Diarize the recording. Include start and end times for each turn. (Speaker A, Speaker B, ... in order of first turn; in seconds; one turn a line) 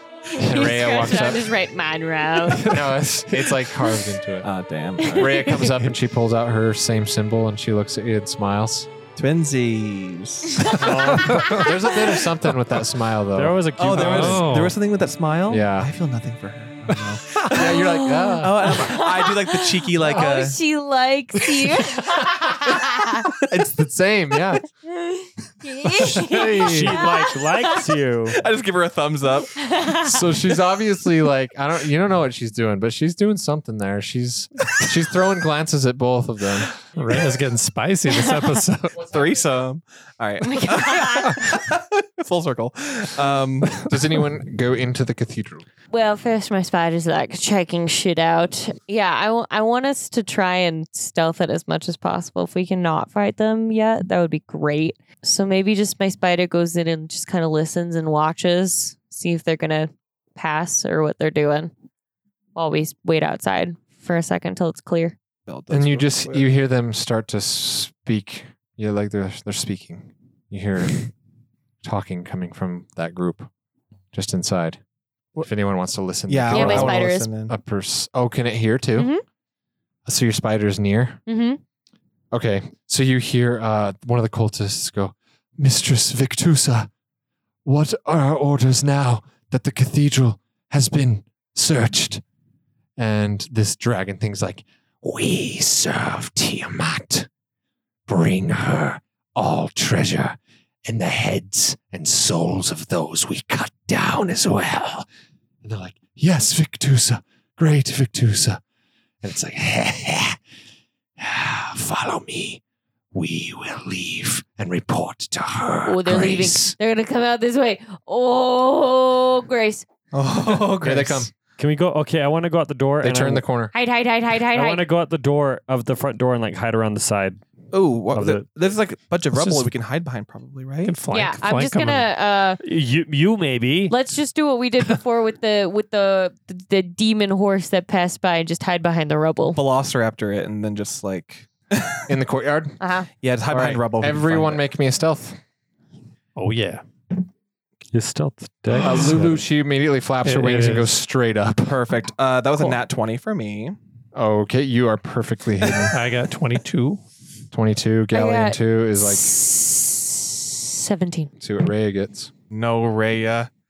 Speaker A: 0.3-1.5
Speaker B: 0.3-2.8
Speaker A: 2.6-4.5
Speaker C: 3.3-3.6
Speaker C: 4.4-5.7
Speaker B: 5.1-5.7
Speaker A: 5.1-8.9
Speaker C: 9.2-11.3
Speaker D: 10.7-11.7
Speaker A: 10.8-14.3
Speaker B: 11.4-11.7
Speaker D: 13.4-14.5
Speaker C: 13.8-17.9
Speaker E: 13.9-14.8
Speaker A: 15.5-15.9
Speaker A: 17.4-18.8
Speaker B: 17.6-23.3
Speaker C: 18.4-20.6
Speaker A: 23.5-24.6
Speaker B: 24.9-27.8
Speaker A: 26.0-27.0
Speaker D: 26.6-28.4
Speaker C: 28.3-29.5
Speaker B: 29.6-30.2
Speaker A: 30.0-36.7
Speaker E: 37.0-39.1
Speaker C: 39.0-43.8
Speaker B: 40.5-41.5
Speaker A: 43.9-45.6
Speaker B: 45.9-61.7
Speaker B: 62.5-65.2
Speaker C: 65.5-66.5
Speaker A: 65.7-71.1
Speaker A: 71.8-73.5
Speaker A: 74.1-74.8
Speaker A: 75.4-79.1
Speaker C: 76.3-77.6
Speaker B: 76.5-77.3
Speaker B: 79.0-79.2
Speaker A: 80.1-81.2
Speaker B: 81.3-81.6
Speaker A: 82.3-86.9
Speaker A: 87.7-92.2
Speaker A: 93.0-97.3
Speaker A: 98.1-105.1
Speaker A: 105.6-108.6
Speaker A: 109.2-110.4
Speaker A: 111.2-112.6
Speaker A: 113.1-116.8
Speaker B: 115.9-119.9
Speaker C: 120.1-121.3
Speaker A: 120.6-121.3
Speaker D: 121.6-123.4
Speaker A: 123.0-123.7
Speaker B: 123.7-124.8
Speaker D: 124.5-127.4
Speaker C: 127.7-131.0
Speaker D: 128.1-128.5
Speaker E: 129.4-129.7
Speaker E: 130.8-132.1
Speaker B: 131.1-132.6
Speaker D: 132.6-133.9
Speaker B: 133.9-139.6
Speaker C: 139.6-142.1
Speaker A: 142.1-142.8
Speaker B: 142.8-143.1
Speaker C: 143.2-144.7
Speaker A: 143.5-145.4
Speaker E: 146.4-146.8
Speaker D: 147.9-149.4
Speaker A: 148.8-151.8
Speaker E: 150.2-150.9
Speaker C: 151.7-153.8
Speaker A: 154.1-155.9
Speaker C: 155.6-155.9
Speaker E: 155.9-157.0
Speaker A: 157.5-159.3
Speaker B: 158.1-161.3
Speaker A: 161.4-162.3
Speaker C: 162.5-163.5